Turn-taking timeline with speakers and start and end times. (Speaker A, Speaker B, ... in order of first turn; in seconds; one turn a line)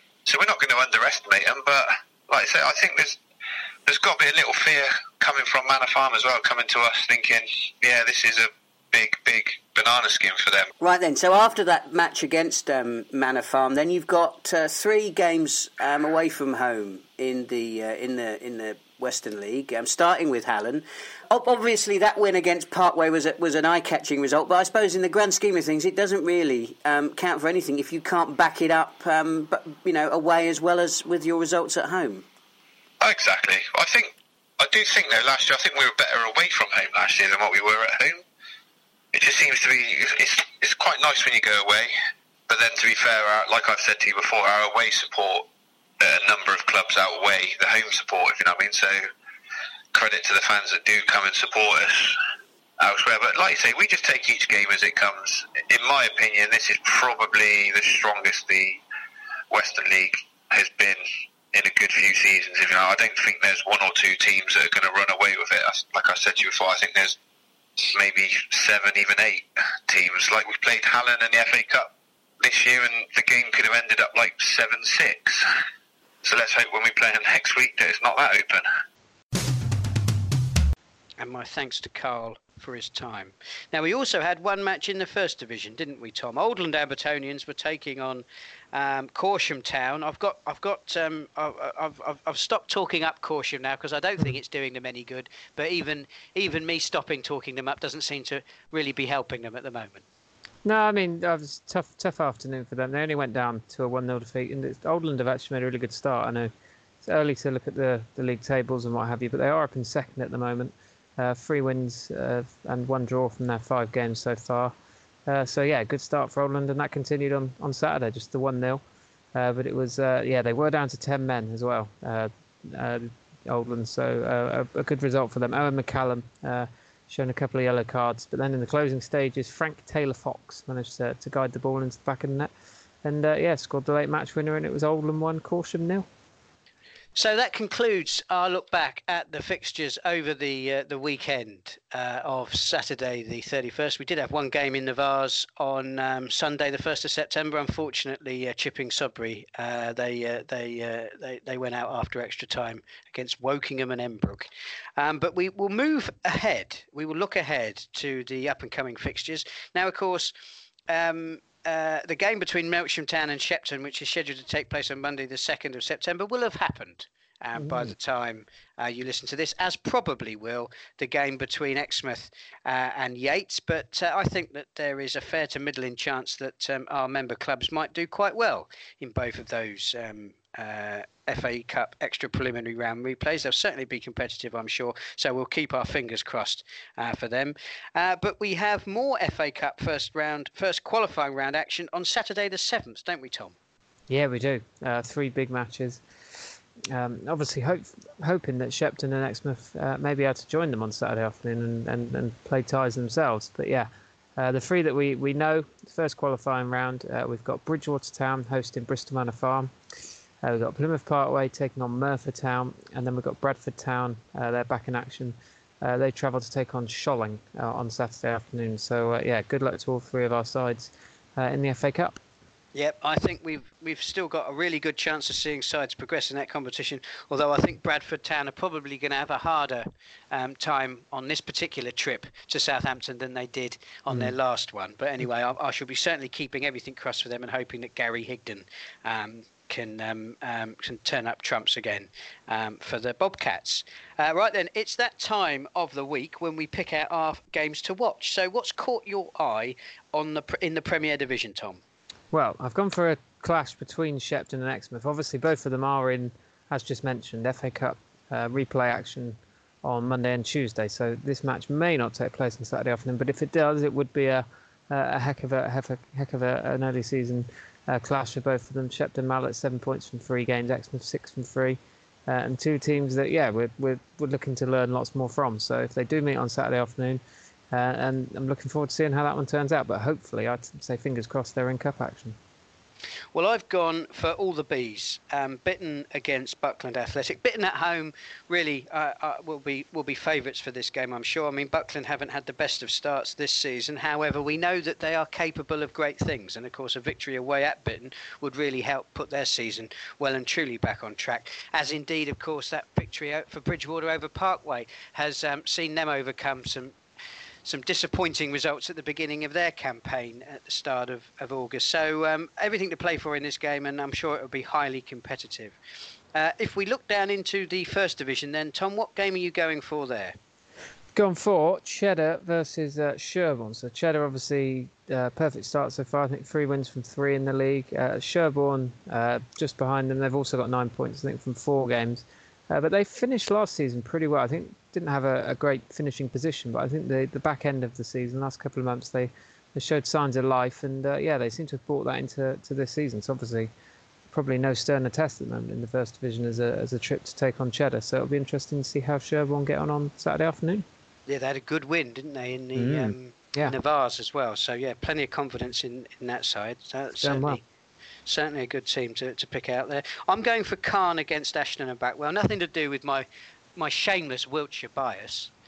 Speaker A: 0.2-3.2
Speaker A: 3.9-10.7
Speaker B: 10.8-32.2
Speaker A: 33.0-38.2
Speaker A: 39.1-41.9
Speaker A: 42.5-45.5
Speaker A: 46.0-49.1
Speaker A: 49.9-52.2
Speaker A: 52.8-58.8
Speaker A: 59.5-67.2
Speaker A: 67.8-75.4
Speaker A: 76.2-78.7
Speaker C: 81.2-100.0
Speaker D: 100.6-106.5
Speaker D: 107.0-114.7
Speaker D: 115.2-118.8
Speaker D: 119.3-132.5
Speaker D: 133.0-136.1
Speaker C: 137.1-160.3
Speaker C: 160.9-193.5
Speaker D: 167.6-167.9
Speaker D: 194.1-209.7
Speaker D: 210.4-222.2
Speaker C: 222.7-251.8
Speaker D: 234.1-234.3
Speaker D: 252.3-282.4
Speaker C: 283.3-306.9
Speaker C: 307.6-315.8
Speaker C: 316.3-320.3
Speaker D: 321.1-343.7
Speaker D: 344.3-350.9
Speaker C: 351.3-357.6
Speaker D: 352.7-353.7
Speaker D: 357.2-357.6
Speaker C: 358.2-365.5